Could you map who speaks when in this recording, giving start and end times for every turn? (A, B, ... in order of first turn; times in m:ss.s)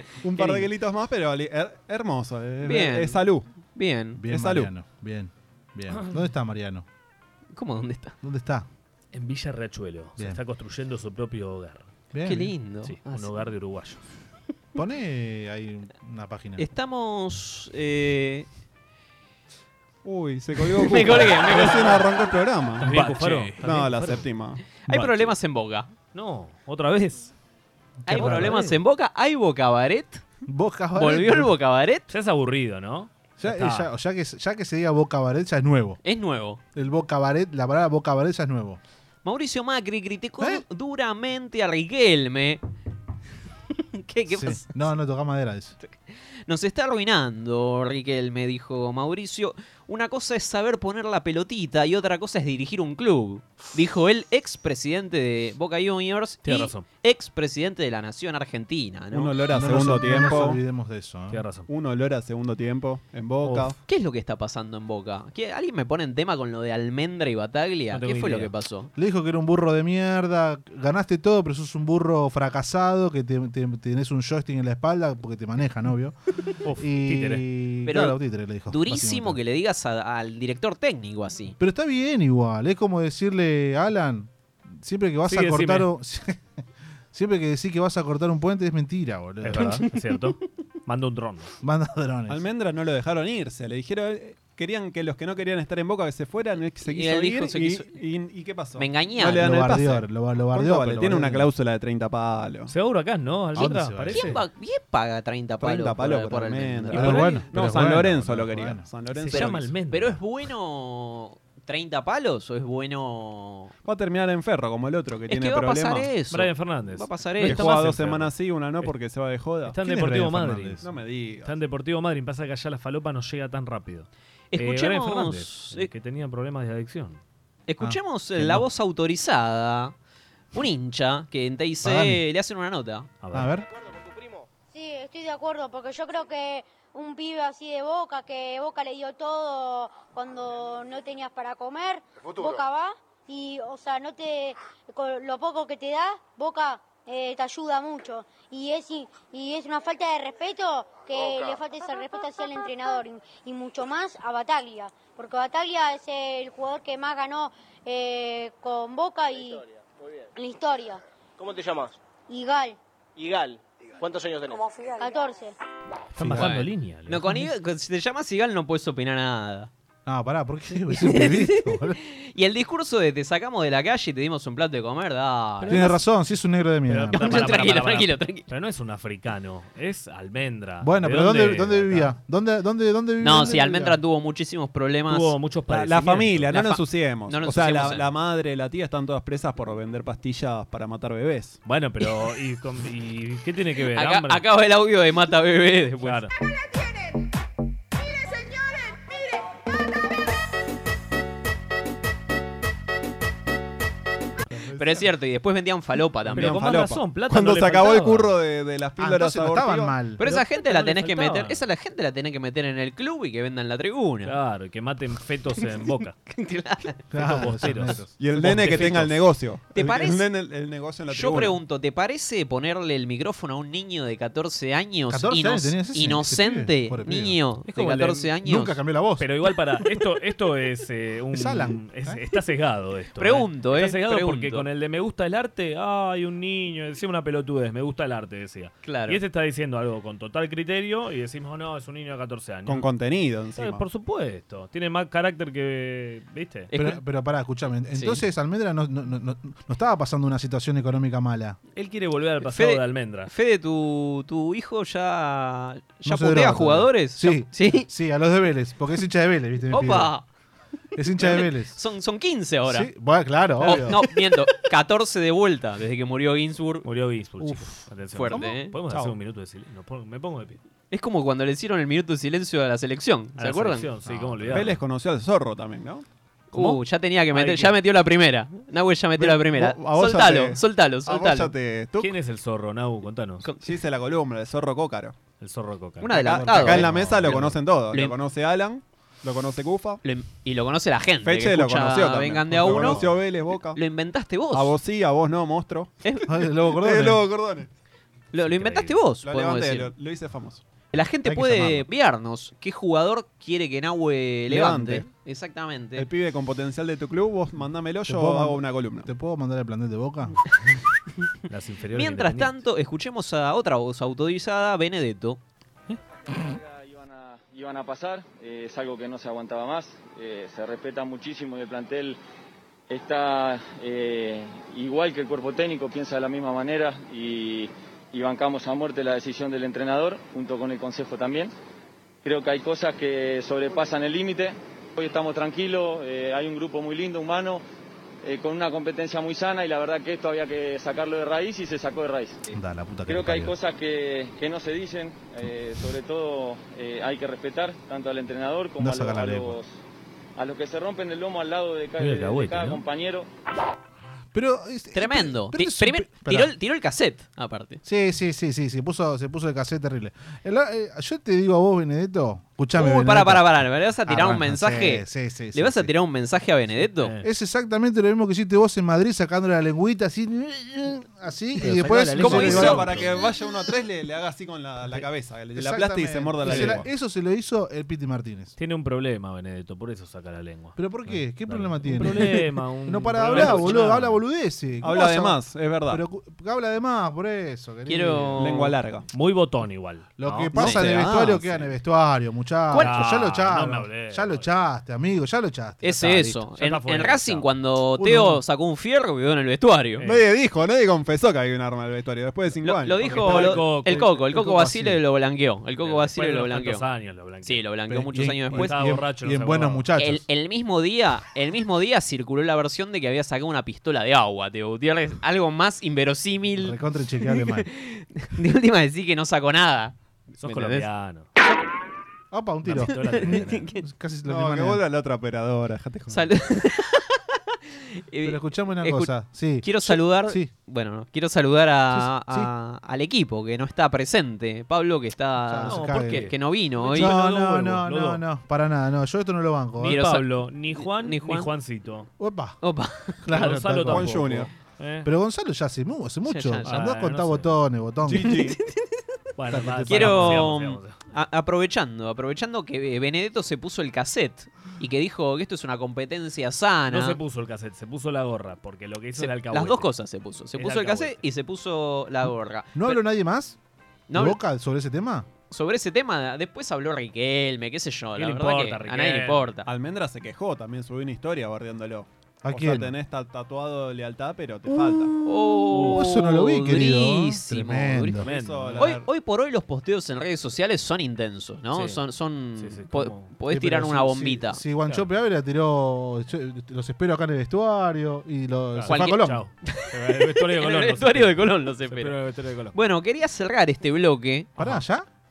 0:00.2-0:03.4 A
0:00.4-0:00.6 B
0:02.6-0:03.2 B
0:03.7-0:04.2 B
0:04.2-0:06.8 C
0:04.3-0:04.7 A
0:07.5-0:08.2 B
0:08.2-0:08.7 C
0:09.1-0:11.9 D
0:12.1-0:12.5 C
0:12.2-0:13.3 B
0:12.8-0:14.0 D
0:14.8-0:16.6 C
0:16.6-0:18.5 B
0:20.0-0:24.6 A
0:20.7-0:22.1 B
0:22.8-0:25.3 D
0:22.9-0:23.5 B
0:24.8-0:25.9 B
0:26.1-0:27.3 D
0:28.0-0:28.8 C
0:28.1-0:30.2 B
0:28.1-0:28.8 D
0:30.5-0:31.5 C
0:30.9-0:32.1 B
0:32.1-0:33.9 D
0:33.4-0:36.0 C
0:36.0-0:36.6 B
0:36.7-0:38.8 C
0:39.2-0:42.6 B
0:43.8-0:44.7 B
0:44.3-0:45.8 C
0:46.5-0:59.3 B
0:56.4-0:56.8 D
0:59.1-1:00.6 A
0:59.5-1:01.4 C
1:01.3-1:01.7 D
1:01.7-1:03.7 A
1:03.4-1:03.7 D
1:03.8-1:08.9 B
1:07.9-1:08.5 D
1:08.9-1:16.2 C
1:16.6-1:17.4 D
1:16.7-1:19.4 C
1:17.9-1:18.2 B
1:18.7-1:21.6 B
1:21.6-1:26.4 C
1:25.3-1:25.9 D
1:27.1-1:29.8 C
1:29.4-1:31.5 D
1:31.6-1:32.4 C
1:32.3-1:42.7 A
1:36.8-1:38.0 B
1:38.7-1:39.5 B
1:39.2-1:41.5 C
1:42.7-1:44.4 D
1:43.5-1:44.4 C
1:44.1-1:47.4 B
1:45.6-1:49.7 A
1:46.9-1:48.9 C
1:49.1-1:50.2 D
1:49.3-1:53.7 B
1:53.8-1:56.1 A
1:55.3-1:57.8 B
1:56.3-1:58.9 D
1:57.4-1:59.8 A
1:59.7-2:00.8 D
1:59.8-2:00.8 C
2:00.8-2:01.5 A
2:01.4-2:07.2 D
2:04.5-2:05.9 B
2:07.7-2:09.9 B
2:07.8-2:08.6 C
2:10.5-2:13.1 B
2:11.8-2:12.2 C
2:13.2-2:13.5 D
2:13.3-2:13.7 C
2:13.7-2:14.4 E
2:14.7-2:39.6 F
2:39.6-2:40.2 E
2:40.4-2:41.0 F
2:41.4-2:42.0 E
2:42.3-2:42.8 F
2:43.2-2:44.7 E
2:44.9-2:45.5 F
2:46.1-2:47.5 D
2:46.2-2:46.5 C
2:46.4-2:49.7 B
2:50.0-2:52.0 C
2:50.9-2:55.9 B
2:55.6-2:56.0 D
2:55.7-2:57.7 C
2:56.9-3:02.1 D
2:57.2-2:58.5 B
3:00.8-3:04.0 C
3:03.2-3:05.3 B
3:05.1-3:06.5 D
3:05.7-3:11.6 A
3:06.5-3:08.0 B
3:11.6-3:14.4 D
3:13.9-3:16.2 B
3:16.0-3:16.3 D
3:24.5-3:25.1 C
3:24.8-3:26.6 B
3:26.3-3:28.4 D
3:26.3-3:29.9 A
3:29.0-3:30.2 C
3:30.2-3:34.3 B
3:30.2-3:31.6 D
3:34.2-3:36.2 D
3:36.3-3:37.0 B
3:37.1-3:38.0 C
3:37.1-3:39.2 D
3:38.2-3:41.6 A
3:39.7-3:40.3 B
3:41.1-3:48.8 B
3:45.1-3:47.4 C
3:47.7-3:48.3 D
3:48.4-3:49.3 C
3:49.2-4:02.9 D
3:51.3-3:52.2 C
3:53.2-3:54.7 B
3:58.8-3:59.2 B
4:02.6-4:03.8 A
4:03.6-4:06.7 D
4:06.7-4:07.0 B
4:06.7-4:11.6 C
4:07.9-4:08.2 B
4:11.7-4:13.3 D
4:12.4-4:17.9 B
4:16.0-4:20.1 C
4:19.7-4:20.2 B
4:21.0-4:21.8 C
4:21.2-4:22.9 B
4:22.7-4:24.0 C
4:23.6-4:26.8 B
4:26.8-4:30.6 D
4:27.4-4:29.0 C
4:28.1-4:28.7 B
4:30.9-4:33.9 B
4:33.4-4:34.8 D
4:34.1-4:34.5 C
4:34.5-4:36.0 A
4:36.5-4:37.8 D
4:36.5-4:41.5 B
4:39.2-4:42.1 A
4:42.0-4:43.5 D
4:43.6-4:45.2 A
4:45.4-4:47.6 D
4:46.0-4:46.9 B
4:46.1-4:50.0 A
4:46.2-4:47.1 C
4:50.0-4:53.0 B
4:51.2-4:53.8 A
4:52.8-4:53.0 D
4:53.7-4:54.7 B
4:54.5-4:55.9 A
4:56.2-4:57.2 C
4:56.6-4:57.7 A
4:58.3-4:59.9 B
4:58.4-4:59.0 D
4:59.2-5:00.6 A
5:00.9-5:06.0 B
5:01.2-5:01.9 C
5:04.5-5:05.1 A
5:06.0-5:09.1 A
5:08.1-5:10.4 C
5:11.5-5:12.6 D
5:11.9-5:15.4 B
5:16.3-5:22.2 G
5:22.9-5:31.5 G
5:32.2-5:37.6 G
5:38.2-5:42.4 G
5:42.5-5:43.6 C
5:43.1-5:49.8 G
5:48.8-5:49.6 C
5:50.4-5:53.3 G
5:52.0-5:52.8 D
5:54.3-5:56.5 C
5:54.9-5:57.8 B
5:57.8-6:05.9 C
6:02.7-6:07.1 B
6:07.0-6:07.3 D
6:07.2-6:13.0 C
6:11.6-6:13.2 D
6:12.2-6:12.9 B
6:12.2-6:16.8 A
6:15.6-6:18.5 C
6:16.4-6:16.8 D
6:18.6-6:24.2 D
6:20.8-6:28.5 C
6:23.3-6:23.8 A
6:24.8-6:26.0 A
6:27.8-6:28.7 B
6:28.4-6:29.1 A
6:29.1-6:30.8 D
6:30.2-6:36.4 C
6:30.6-6:31.3 B
6:30.7-6:31.4 A
6:32.7-6:34.5 D
6:32.7-6:33.1 B
6:35.8-6:40.0 B
6:36.3-6:37.5 D
6:38.0-6:38.4 C
6:40.0-6:43.6 A
6:42.6-6:46.8 B
6:43.0-6:45.0 D
6:45.8-6:47.6 D
6:47.4-6:48.8 B
6:47.9-6:50.2 C
6:48.5-6:49.8 D
6:50.0-7:00.9 B
6:56.6-6:57.7 C
7:00.4-7:01.3 D
7:02.3-7:04.8 C
7:02.6-7:03.7 D
7:02.9-7:03.8 B
7:04.2-7:06.3 A
7:06.1-7:07.2 B
7:08.1-7:17.2 B
7:08.2-7:10.5 C
7:11.9-7:12.5 C
7:15.4-7:16.3 C
7:15.6-7:18.2 D
7:16.9-7:20.0 C
7:19.8-7:21.5 B
7:19.8-7:22.1 D
7:22.2-7:22.6 C
7:22.6-7:23.5 B
7:23.2-7:24.4 C
7:23.3-7:25.1 D
7:23.9-7:24.5 A
7:25.0-7:28.4 C
7:26.2-7:26.8 B
7:26.6-7:27.6 D
7:28.1-7:28.6 A
7:28.2-7:29.0 B
7:29.4-7:31.0 D
7:29.5-7:30.5 C
7:29.9-7:37.2 B
7:36.9-7:39.9 D
7:39.2-7:43.0 B
7:40.6-7:41.2 D
7:42.7-7:43.6 C
7:44.1-7:44.4 B
7:44.1-7:45.3 C
7:45.5-7:49.7 B
7:48.2-7:49.5 D
7:49.6-7:55.1 A
7:52.4-7:52.9 C
7:54.7-7:58.3 C
7:55.2-7:58.2 B
7:55.7-7:56.1 D
7:58.2-7:59.1 A
7:58.2-7:58.9 D
7:58.8-8:04.6 B
8:01.7-8:02.0 D
8:02.6-8:03.3 D
8:03.5-8:09.4 C
8:08.7-8:12.8 D
8:08.9-8:12.1 B
8:12.7-8:14.5 B
8:14.6-8:15.1 C